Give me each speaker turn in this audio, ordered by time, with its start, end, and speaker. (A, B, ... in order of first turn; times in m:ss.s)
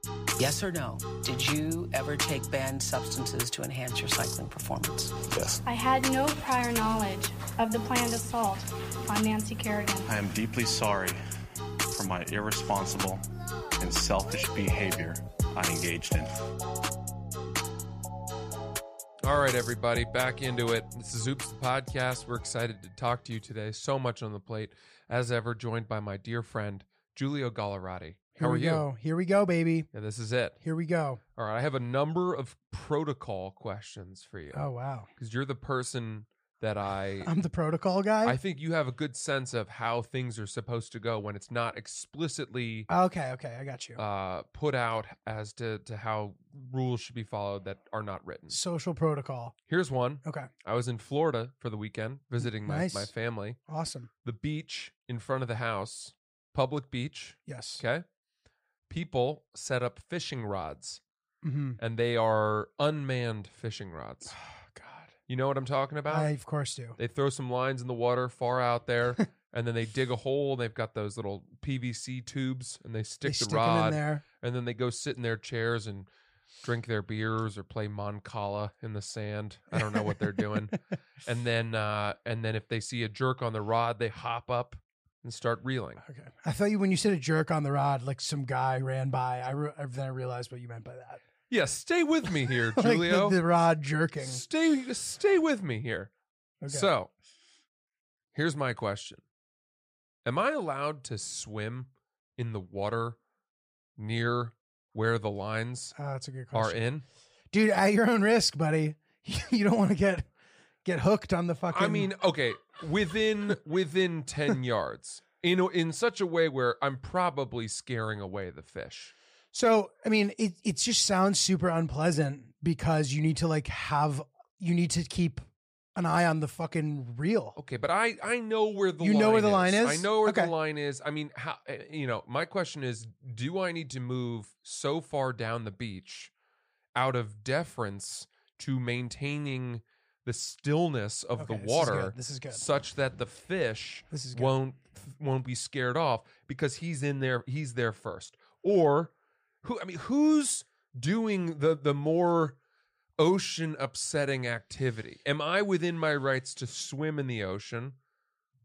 0:00.4-0:05.2 A
0:05.3-0:05.6 B
0:05.6-0:10.1 C
0:10.1-0:11.2 B
0:11.9-0:13.2 B
0:13.8-0:16.3 B
0:19.2-0:28.8 D
0:28.4-0:29.9 E
0:29.9-0:30.6 D
0:30.6-0:31.2 E
0:31.4-0:34.6 D
0:34.5-0:35.1 E
0:35.2-0:37.3 D
0:37.2-0:38.4 E
0:38.2-0:42.9 D
0:42.9-0:44.0 E
0:44.0-0:48.6 D
0:48.5-0:49.5 E
0:49.7-0:53.6 D
0:50.2-0:50.5 E
0:52.4-0:53.1 E
0:53.7-0:54.1 E
0:54.2-0:58.0 D
0:57.5-0:57.8 E
0:58.9-1:01.0 D
1:01.4-1:01.8 E
1:01.8-1:04.3 D
1:04.3-1:05.1 E
1:05.3-1:06.3 D
1:06.1-1:07.0 E
1:07.0-1:16.1 D
1:13.2-1:14.2 E
1:16.6-1:26.0 D
1:19.7-1:20.8 E
1:26.0-1:31.2 E
1:31.5-1:33.4 D
1:32.4-1:34.4 E
1:34.2-1:36.1 D
1:36.6-1:36.9 E
1:36.7-1:37.1 D
1:38.3-1:39.2 D
1:40.2-1:43.2 D
1:44.0-1:45.9 D
1:46.0-1:46.8 E
1:46.5-1:47.0 D
1:47.5-1:50.3 E
1:50.8-1:52.1 E
1:51.7-1:59.1 D
1:59.5-2:05.4 E
2:06.0-2:07.6 E
2:07.6-2:16.3 D
2:09.0-2:10.5 E
2:16.9-2:32.6 D
2:21.4-2:22.6 E
2:24.1-2:24.5 E
2:33.2-2:38.0 D